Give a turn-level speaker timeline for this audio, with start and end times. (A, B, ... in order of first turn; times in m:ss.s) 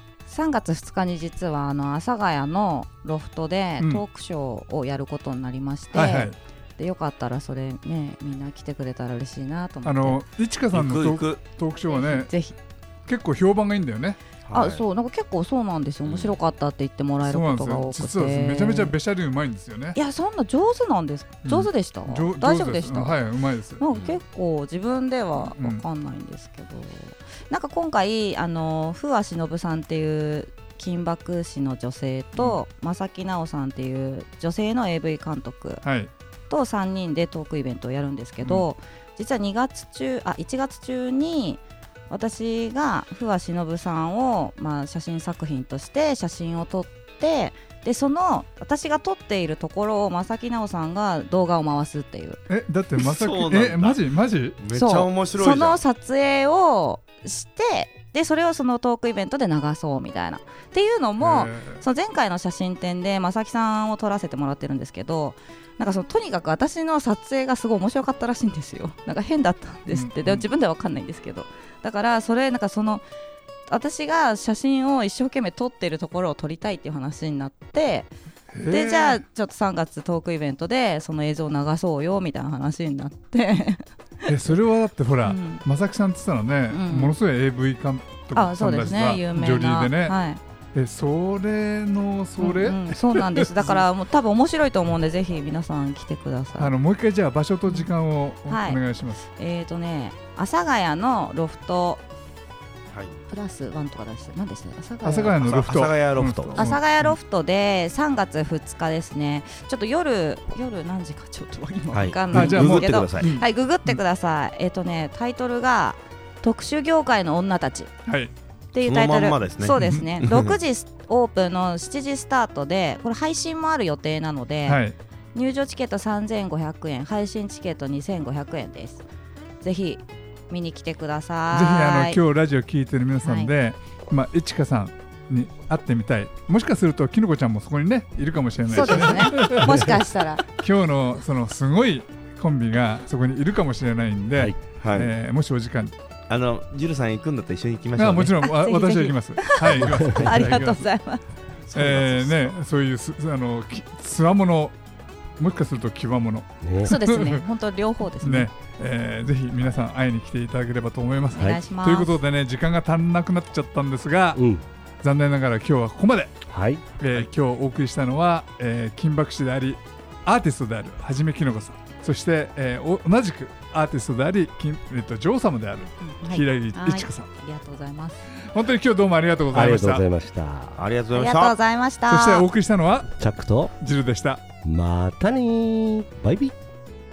0:00.2-0:10.2 A
0:05.9-0:06.4 B
0:09.8-0:12.3 B
0:10.7-0:11.4 C
0:11.9-0:12.5 A
0:13.0-0:14.2 B
0:14.4-0:14.8 C
0:14.5-0:18.9 A
0:16.0-0:16.4 C
0:17.2-0:20.0 B
0:19.9-0:23.2 A
0:21.4-0:23.8 B
0:23.8-0:35.8 A
0:23.9-0:24.2 C
0:25.4-0:25.8 B
0:35.8-0:36.1 B
0:36.5-0:52.4 A
0:52.5-0:54.6 B
0:53.0-0:54.0 C
0:54.6-0:55.8 C
0:54.7-1:13.0 A
1:01.2-1:01.8 B
1:09.9-1:10.5 B
1:13.7-1:18.1 A
1:18.5-1:19.2 B
1:18.6-1:24.6 A
1:24.2-1:30.2 B
1:25.2-1:25.6 A
1:26.7-1:27.2 A
1:28.3-1:30.4 A
1:30.7-1:33.8 B
1:32.4-1:36.7 A
1:36.6-1:39.2 B
1:38.5-1:42.0 A
1:42.9-1:43.2 C
1:43.3-1:45.4 A
1:45.0-1:47.2 B
1:45.1-1:46.7 C
1:46.5-1:57.9 A
1:51.9-1:53.4 C
1:52.3-1:54.0 B
1:58.1-1:58.3 B
1:58.7-2:04.8 A
1:58.8-2:00.6 C
1:59.8-2:00.0 B
2:04.6-2:04.9 B
2:05.3-2:09.0 A
2:09.6-2:12.2 A
2:11.5-2:20.0 B
2:13.2-2:13.5 A
2:18.7-2:20.4 A
2:19.4-2:19.7 D
2:20.5-2:25.9 B
2:24.8-2:25.2 C
2:26.3-2:28.4 C
2:28.0-2:30.8 B
2:28.4-2:31.2 A
2:29.8-2:30.6 D
2:31.7-2:32.5 C
2:31.7-2:34.8 B
2:35.4-2:37.4 B
2:36.6-2:37.0 D
2:36.8-2:38.5 A
2:38.2-2:44.4 B
2:41.3-2:42.2 A
2:44.4-2:44.6 D
2:45.0-2:46.4 B
2:46.5-2:46.8 D
2:47.0-2:57.3 B
2:56.0-2:58.3 A
2:58.4-3:00.0 B
2:59.5-3:00.8 D
3:00.7-3:01.6 C
3:01.1-3:02.5 A
3:02.1-3:03.1 B
3:03.2-3:03.7 D
3:03.8-3:04.4 B
3:04.6-3:06.5 D